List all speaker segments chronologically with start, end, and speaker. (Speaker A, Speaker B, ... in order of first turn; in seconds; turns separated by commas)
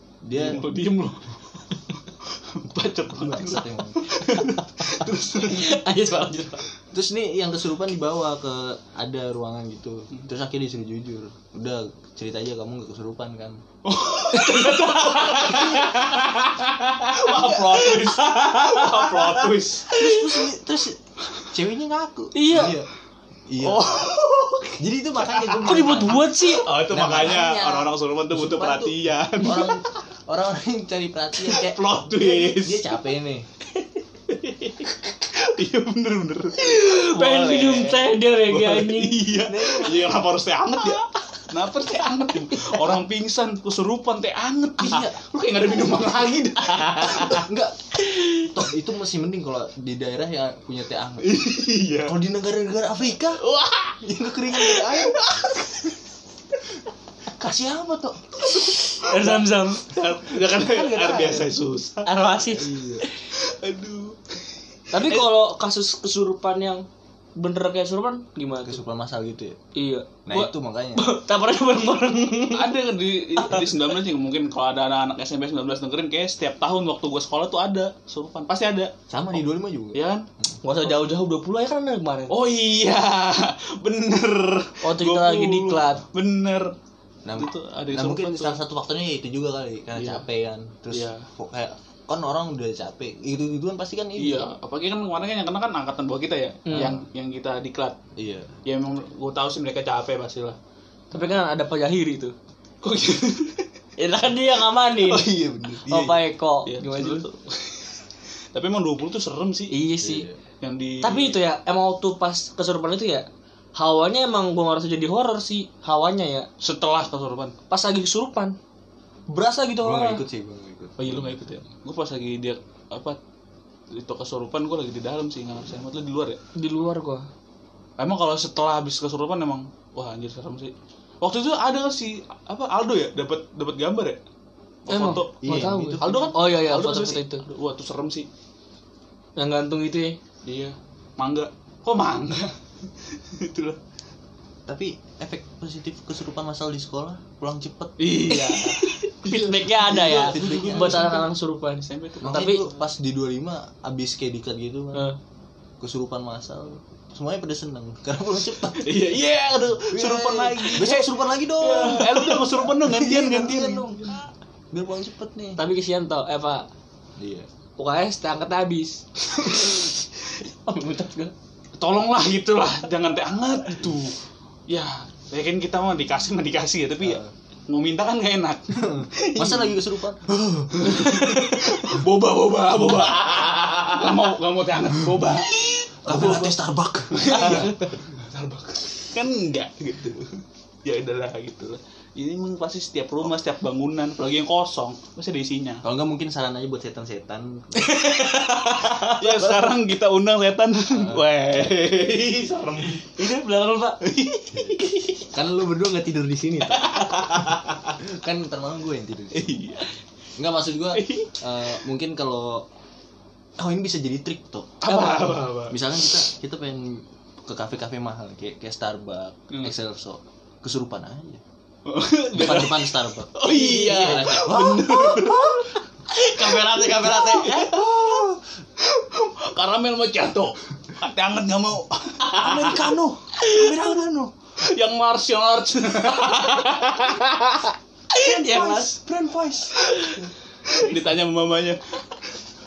Speaker A: 0.2-0.7, Speaker B: 0.3-5.8, Speaker A: 3.1-4.0, Speaker C: 4.1-6.6, Speaker A: 6.9-13.6, Speaker B: 13.8-19.9, Speaker C: 14.3-16.3, Speaker C: 17.0-20.4, Speaker A: 19.9-22.9, Speaker C: 22.3-22.8, Speaker A: 23.5-24.1, Speaker B: 23.6-29.8, Speaker A: 24.8-26.3, Speaker C: 25.6-26.6, Speaker A: 26.9-33.5, Speaker B: 31.4-33.0, Speaker B: 34.4-47.5, Speaker C: 36.6-39.2, Speaker A: 39.5-40.2, Speaker A: 44.8-45.2, Speaker A: 47.1-51.4, Speaker B: 51.2-52.1, Speaker A: 52.0-53.4, Speaker B: 53.4-54.0, Speaker A: 54.0-55.2, Speaker B: 54.6-55.9, Speaker A: 57.3-58.5, Speaker C: 58.5-60.0, Speaker B: 59.0-62.1, Speaker A: 60.4-61.5, Speaker C: 62.0-63.3, Speaker A: 62.5-63.0, Speaker B: 63.3-64.4, Speaker C: 64.9-66.8, Speaker B: 64.9-65.3, Speaker C: 67.4-68.8, Speaker A: 68.6-69.6, Speaker C: 69.7-72.8, Speaker A: 70.2-71.1, Speaker B: 72.5-78.9, Speaker C: 73.3-73.9, Speaker A: 79.1-80.5, Speaker B: 79.9-80.3, Speaker C: 80.6-82.3, Speaker B: 82.3-86.7, Speaker C: 84.8-86.0, Speaker A: 87.2-94.5, Speaker B: 87.3-88.6, Speaker B: 90.0-90.2, Speaker B: 90.9-91.3, Speaker B: 94.2-98.0, Speaker C: 96.7-97.0, Speaker A: 98.2-98.5, Speaker B: 98.6-100.6, Speaker C: 101.1-102.3, Speaker B: 102.8-103.7, Speaker C: 104.0-105.3, Speaker B: 105.0-109.8, Speaker A: 105.2-105.9, Speaker C: 105.8-107.3, Speaker C: 109.7-110.3, Speaker A: 110.0-110.4, Speaker B: 110.6-111.4, Speaker C: 111.0-116.5, Speaker B: 116.6-117.5, Speaker C: 117.7-118.5, Speaker C: 119.3-120.2, Speaker A: 119.8-121.4, Speaker B: 121.0-123.2, Speaker B: 123.9-126.4, Speaker C: 126.5-127.3, Speaker B: 128.0-134.2, Speaker B: 134.9-138.3, Speaker C: 134.9-137.4, Speaker A: 135.0-136.3, Speaker C: 139.4-140.2, Speaker B: 140.4-143.8, Speaker A: 144.7-148.2, Speaker B: 148.0-151.2, Speaker C: 148.3-152.6, Speaker A: 149.8-151.2, Speaker B: 151.9-152.7, Speaker A: 152.2-155.1, Speaker A: 155.8-159.2, Speaker B: 158.7-164.2, Speaker A: 159.9-164.1, Speaker A: 164.7-165.6, Speaker C: 165.6-166.7, Speaker A: 167.2-167.5, Speaker C: 167.8-171.3, Speaker B: 171.8-174.1, Speaker B: 174.7-179.8, Speaker A: 177.0-177.3, Speaker A: 178.7-181.5, Speaker B: 180.7-186.5, Speaker A: 185.6-187.8, Speaker C: 186.1-186.4, Speaker B: 187.1-195.8, Speaker C: 187.4-187.7, Speaker A: 195.8-198.1, Speaker C: 197.8-199.2, Speaker B: 199.0-203.2, Speaker A: 199.4-199.6, Speaker A: 200.9-201.3, Speaker C: 203.2-204.0, Speaker B: 204.0-205.2, Speaker A: 204.5-204.8, Speaker A: 205.3-207.2, Speaker B: 206.8-207.9, Speaker A: 208.0-209.6, Speaker B: 209.3-209.9, Speaker A: 210.4-212.7, Speaker B: 210.9-211.6, Speaker A: 213.6-221.4, Speaker B: 214.8-216.2, Speaker B: 219.5-219.7, Speaker B: 221.8-233.0, Speaker A: 222.3-225.6, Speaker A: 226.2-228.4, Speaker C: 226.3-227.2, Speaker A: 232.3-234.3, Speaker B: 234.6-237.7, Speaker C: 236.2-236.9, Speaker C: 238.2-238.9, Speaker A: 238.2-239.8, Speaker B: 238.2-238.7, Speaker C: 239.8-240.2, Speaker B: 240.7-241.8